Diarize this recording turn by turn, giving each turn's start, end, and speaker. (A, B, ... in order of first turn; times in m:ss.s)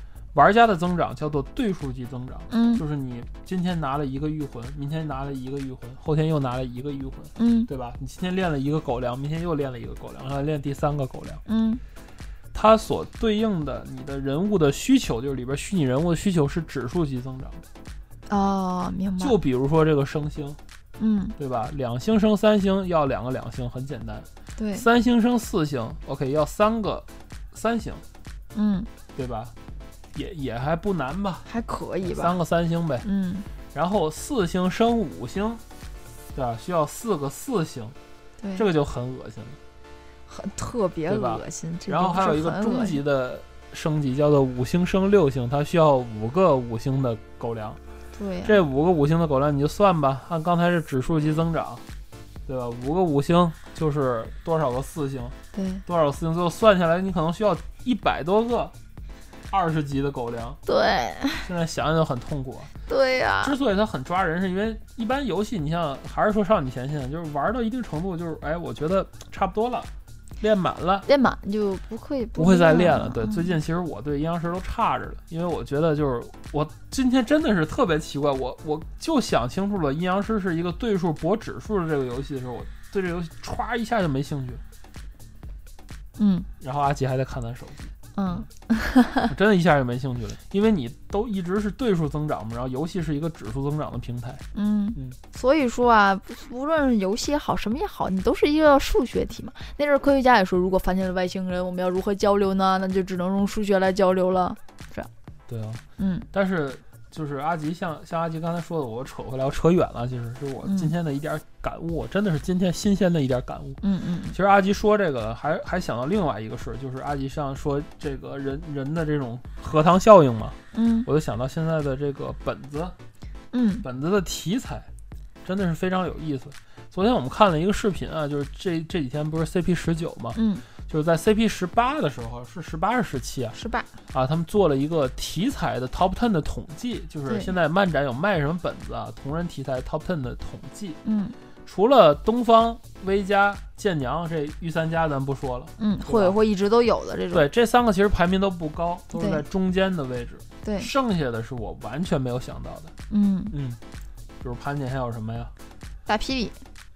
0:00.3-0:11.4 A
0:02.5-0:02.8 B
0:07.4-0:07.7 B
0:11.5-0:11.8 B
0:12.5-0:17.6 A
0:18.3-0:19.4 B
0:19.2-0:20.6 A
0:21.0-0:21.4 B
0:21.4-0:28.0 A
0:24.6-0:24.9 B
0:28.5-0:28.9 B
0:29.2-0:29.5 A
0:30.2-0:31.5 A
0:31.5-0:32.4 B
0:32.0-0:33.1 A
0:33.0-0:33.5 B
0:33.7-0:35.6 A
0:36.3-0:38.0 A
0:38.4-0:38.7 B
0:38.6-0:39.6 A
0:40.3-0:43.0 B
0:41.1-0:47.8 A
0:48.2-0:48.6 B
0:48.5-0:51.8 A
0:52.5-0:55.4 A
0:55.5-0:55.8 B
0:55.9-0:58.7 A
0:59.5-1:00.6 A
1:00.7-1:01.5 B
1:01.4-1:02.7 A
1:02.9-1:03.6 B
1:03.4-1:09.9 A
1:10.4-1:11.1 A
1:11.1-1:13.6 B
1:12.4-1:24.6 A
1:26.2-1:26.5 B
1:26.6-1:28.5 A
1:28.2-1:29.3 B
1:29.3-1:34.4 A
1:34.5-1:45.1 B
1:45.5-1:53.8 A
1:46.0-1:46.3 B
1:50.6-1:50.9 B
1:53.8-1:54.4 B
1:54.3-2:03.0 A
2:00.7-2:01.1 B
2:03.5-2:03.8 B
2:03.8-2:04.9 A
2:05.4-2:13.6 A
2:10.4-2:10.6 B
2:13.6-2:13.9 B
2:14.1-2:21.0 A
2:21.0-2:21.4 B
2:21.7-2:26.4 A
2:25.8-2:27.4 B
2:27.3-2:32.9 A
2:29.1-2:29.4 B
2:30.6-2:30.9 B
2:33.1-2:33.6 B
2:33.5-2:33.8 A
2:34.4-2:35.5 A
2:36.1-2:36.6 B